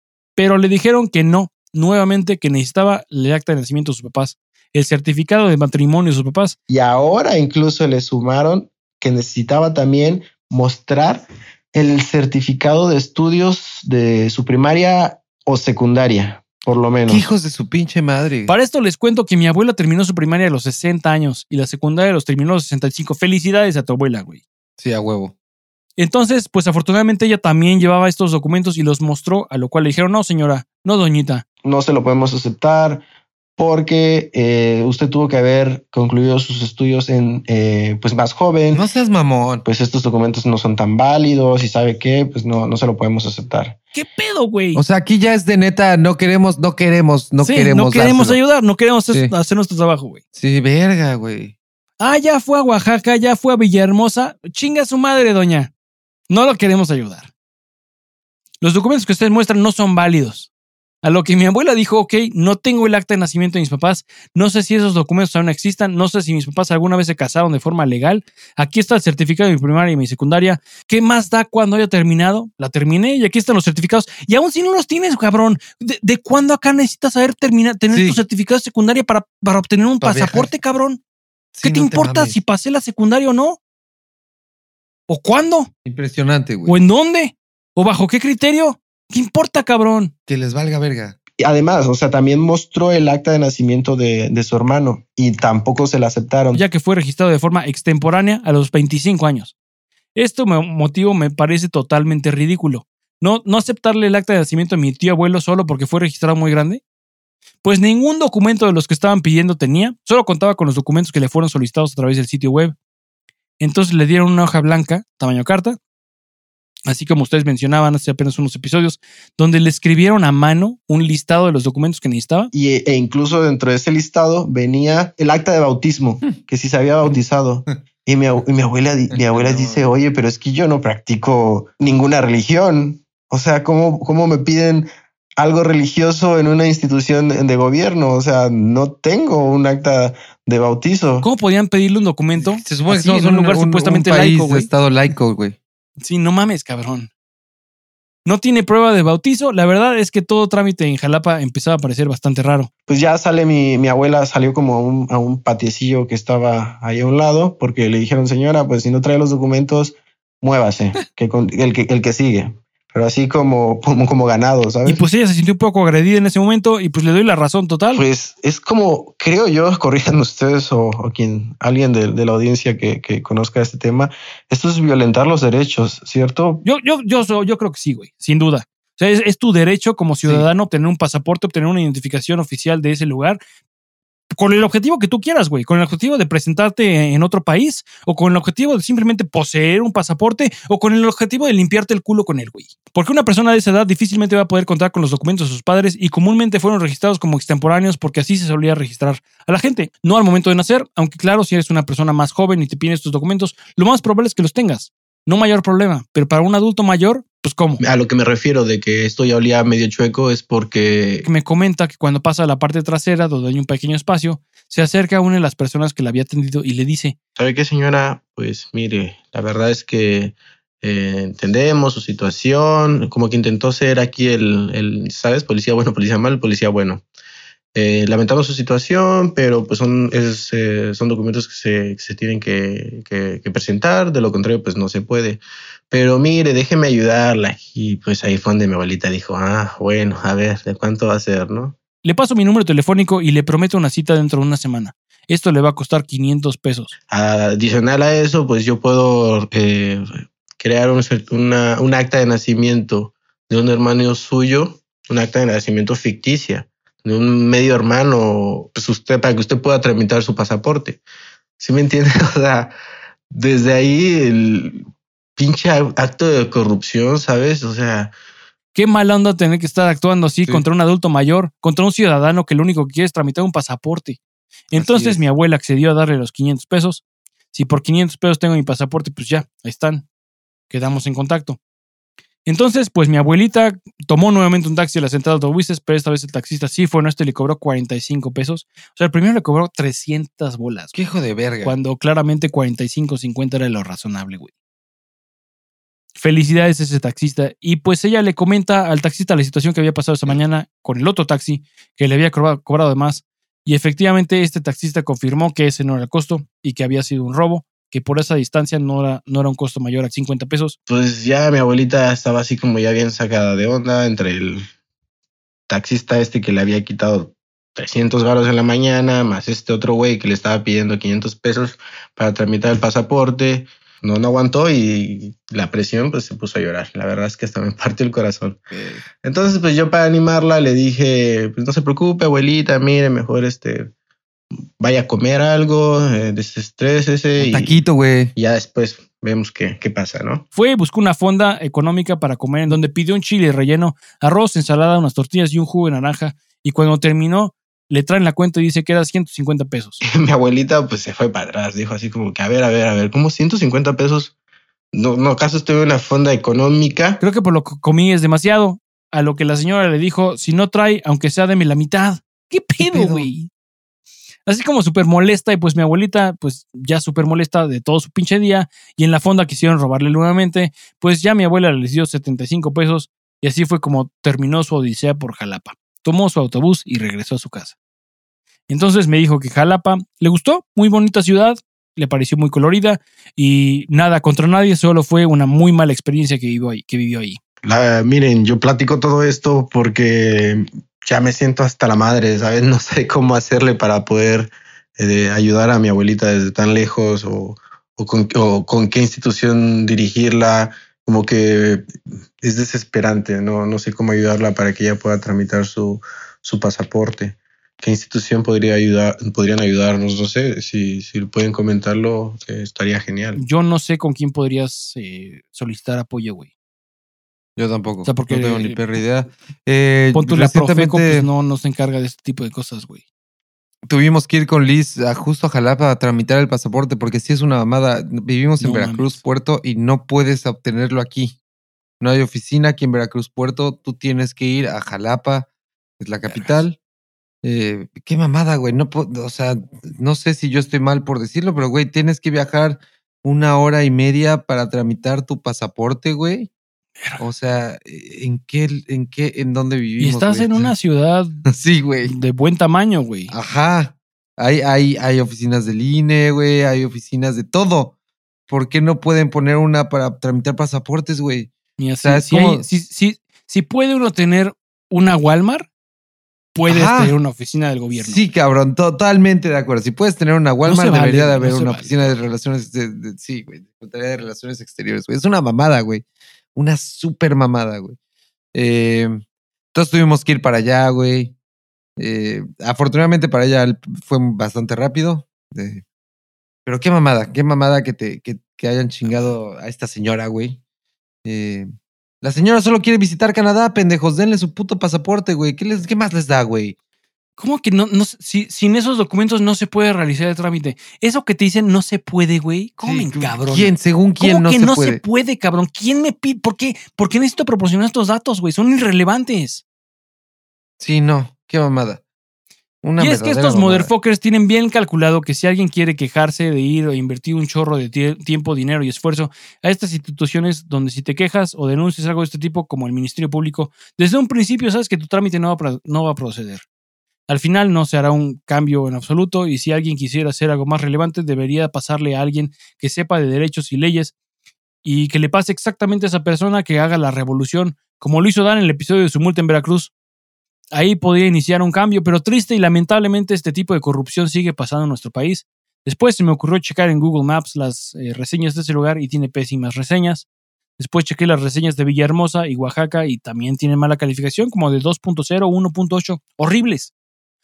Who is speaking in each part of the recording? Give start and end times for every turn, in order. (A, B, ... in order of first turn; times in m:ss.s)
0:00.4-0:06.6 A
0:06.7-0:17.2 B
0:17.1-0:18.5 C
0:18.5-0:24.4 A
0:24.8-0:25.3 C
0:26.0-0:31.4 A
0:31.6-0:33.0 B
0:33.6-0:38.8 B
0:38.7-0:39.6 C
0:39.6-0:43.8 B
0:43.9-0:44.8 A
0:44.7-0:48.4 C
0:47.4-0:50.2 A
0:50.3-0:51.5 C
0:52.0-0:55.7 A
0:56.3-0:57.3 A
0:58.6-1:00.5 A
1:01.0-1:21.0 A
1:17.9-1:18.2 C
1:20.0-1:20.5 C
1:21.5-1:22.4 C
1:21.6-1:23.6 A
1:25.1-1:25.7 A
1:25.8-1:26.8 C
1:26.6-1:30.1 A
1:30.3-1:31.2 C
1:31.4-1:36.6 B
1:36.5-1:39.5 A
1:40.1-1:46.8 A
1:47.6-1:52.7 A
1:53.6-1:55.8 A
1:56.9-2:02.5 A
2:02.5-2:21.3 B
2:09.1-2:09.9 C
2:21.2-2:24.7 A
2:22.4-2:25.6 C
2:26.0-2:27.1 A
2:28.2-2:32.7 A
2:32.9-2:45.0 B
2:44.8-2:48.0 A
2:47.9-2:56.6 B
2:56.6-3:03.4 A
3:00.2-3:00.5 B
3:04.3-3:27.8 A
3:27.8-3:31.3 B
3:31.2-3:37.2 A
3:37.4-3:47.0 B
3:47.7-4:01.8 B
4:02.0-4:06.9 A
4:07.1-4:21.0 B
4:21.6-4:22.7 B
4:23.3-4:28.1 B
4:28.7-4:34.2 A
4:34.7-4:40.0 A
4:34.7-4:35.2 C
4:40.7-4:41.6 A
4:42.4-4:51.0 A
4:50.9-4:51.8 C
4:51.6-4:54.5 A
4:56.2-5:10.8 A
5:10.9-5:14.7 B
5:15.7-5:28.6 B
5:28.7-5:29.0 C
5:29.2-5:33.9 B
5:34.8-5:37.8 B
5:37.4-5:38.3 C
5:38.4-5:40.4 B
5:40.5-5:50.0 A
5:50.0-5:54.3 B
5:54.9-5:57.2 B
5:57.2-6:03.5 A
6:02.8-6:03.3 C
6:04.5-6:17.7 A
6:18.7-6:27.4 A
6:27.6-6:41.9 B
6:42.4-6:53.4 B
6:53.4-6:56.5 A
6:57.6-7:01.3 C
6:58.0-6:58.8 A
7:00.1-7:03.0 A
7:03.9-7:11.4 C
7:08.6-7:09.2 A
7:12.0-7:15.5 C
7:16.0-7:16.8 C
7:16.3-7:16.6 A
7:17.4-7:26.5 C
7:27.2-7:30.7 C
7:30.0-7:31.4 A
7:31.4-7:32.1 C
7:32.0-7:33.3 A
7:33.3-7:37.9 C
7:38.5-7:41.5 C
7:41.8-7:45.7 A
7:42.0-7:42.6 C
7:46.5-7:48.2 A
7:46.7-7:47.1 C
7:47.9-7:56.0 C
7:50.6-7:51.9 A
7:56.5-7:58.0 C
7:58.5-7:59.2 C
7:59.7-8:01.3 C
8:02.0-8:05.8 C
8:06.6-8:10.6 C
8:09.0-8:09.3 A
8:11.2-8:11.7 C
8:12.2-8:16.8 C
8:17.4-8:29.6 A
8:22.8-8:25.0 C
8:30.8-8:32.0 C
8:32.8-8:33.9 C
8:33.0-8:46.6 A
8:47.3-8:54.1 A
8:54.8-8:59.9 A
9:00.7-9:10.3 A
9:10.8-9:16.9 A